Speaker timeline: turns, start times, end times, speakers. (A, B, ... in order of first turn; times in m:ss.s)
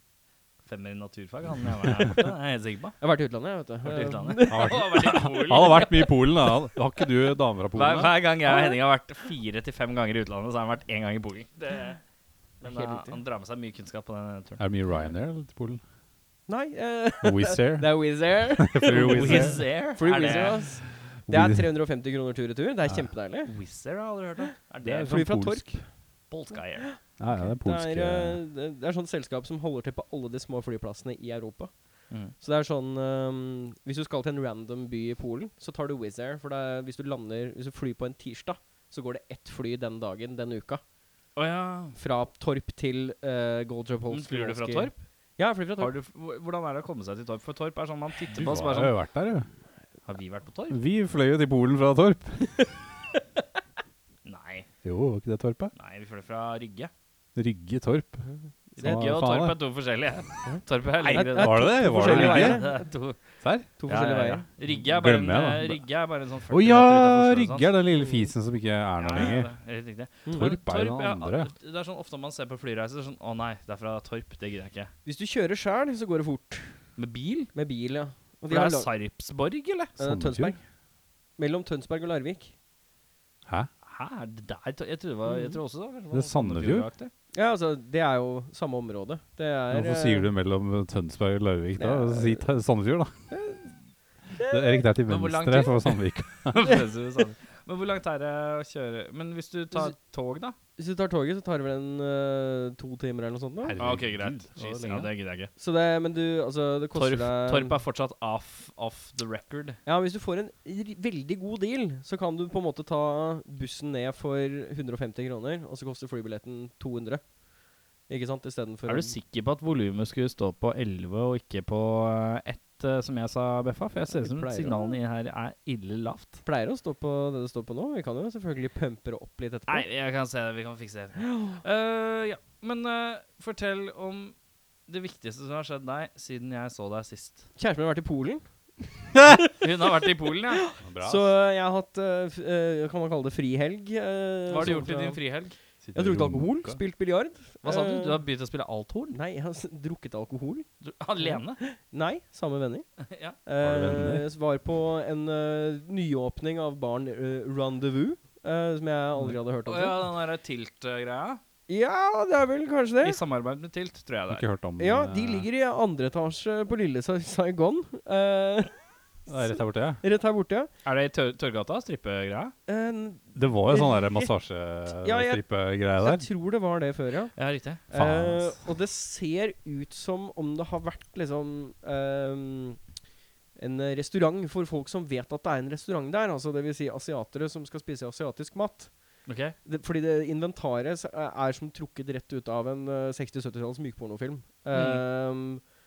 0:00.6-0:03.0 A
0:03.0-0:05.2 B
0:03.8-0:06.2 A
0:04.5-0:08.1 C
0:07.7-0:12.0 A
0:08.5-0:08.7 B
0:12.6-0:14.6 A
0:12.6-0:13.2 B
0:14.6-0:15.8 C
0:16.5-0:23.5 B
0:17.2-0:17.9 C
0:18.6-0:19.6 C
0:18.9-0:20.6 A
0:21.3-0:21.7 C
0:23.4-0:25.2 A
0:24.8-0:25.8 C
0:25.1-0:25.8 B
0:26.3-0:26.9 A
0:27.2-0:28.4 C
0:27.5-0:31.7 B
0:32.3-0:40.8 B
0:41.4-0:42.0 A
0:41.9-0:45.9 B
0:44.1-0:45.0 A
0:45.8-0:48.9 A
0:48.3-0:49.5 C
0:50.0-0:50.8 A
0:50.7-0:52.6 C
0:54.2-0:54.7 A
0:54.8-0:55.7 C
0:55.8-0:56.9 A
0:57.4-0:58.3 C
0:58.7-0:59.0 B
0:58.8-1:03.2 A
0:58.8-0:59.6 C
1:00.4-1:02.8 B
1:01.0-1:02.6 C
1:03.4-1:03.7 C
1:03.8-1:04.4 B
1:03.9-1:07.7 A
1:04.7-1:05.8 C
1:06.5-1:09.5 C
1:07.9-1:08.3 B
1:09.0-1:14.9 A
1:10.3-1:10.5 B
1:10.3-1:11.5 C
1:15.0-1:16.7 B
1:17.0-1:17.5 A
1:17.5-1:18.9 B
1:18.5-1:19.9 A
1:20.0-1:20.6 C
1:20.0-1:20.6 B
1:21.4-1:22.5 B
1:23.8-1:27.1 A
1:25.3-1:25.6 B
1:26.1-1:26.9 C
1:27.3-1:30.3 B
1:29.7-1:33.1 C
1:31.8-1:32.4 B
1:33.3-1:33.7 B
1:34.3-1:36.6 C
1:34.4-1:34.8 B
1:35.1-1:40.5 A
1:40.8-1:43.8 B
1:43.6-1:45.1 C
1:43.8-1:45.5 A
1:45.6-1:47.8 B
1:47.0-1:49.8 A
1:49.8-1:57.2 B
1:58.1-1:59.1 B
1:58.8-2:06.4 A
2:04.1-2:05.0 B
2:06.4-2:09.8 B
2:09.7-2:14.3 A
2:11.2-2:11.6 B
2:14.9-2:17.5 A
2:17.6-2:18.4 B
2:19.0-2:19.5 B
2:19.6-2:20.7 A
2:20.6-2:25.2 B
2:20.8-2:21.3 C
2:24.5-2:25.5 A
2:25.8-2:26.8 C
2:25.9-2:28.2 B
2:27.6-2:29.2 A
2:29.1-2:32.8 B
2:30.8-2:31.6 A
2:33.0-2:33.4 A
2:33.4-2:40.0 B
2:33.6-2:34.3 C
2:39.2-2:41.4 A
2:41.7-2:43.2 B
2:43.0-2:44.4 A
2:44.3-2:45.5 C
2:44.8-2:48.7 B
2:49.3-2:50.0 C
2:49.3-2:50.7 B
2:50.8-2:52.5 A
2:52.7-2:54.3 B
2:53.3-2:56.2 C
2:55.0-2:55.4 B
2:55.9-2:57.3 B
2:57.4-2:57.8 A
2:57.9-3:02.8 B
2:57.9-2:58.6 C
3:03.6-3:08.9 B
3:09.3-3:09.5 A
3:09.6-3:15.6 B
3:14.7-3:15.0 A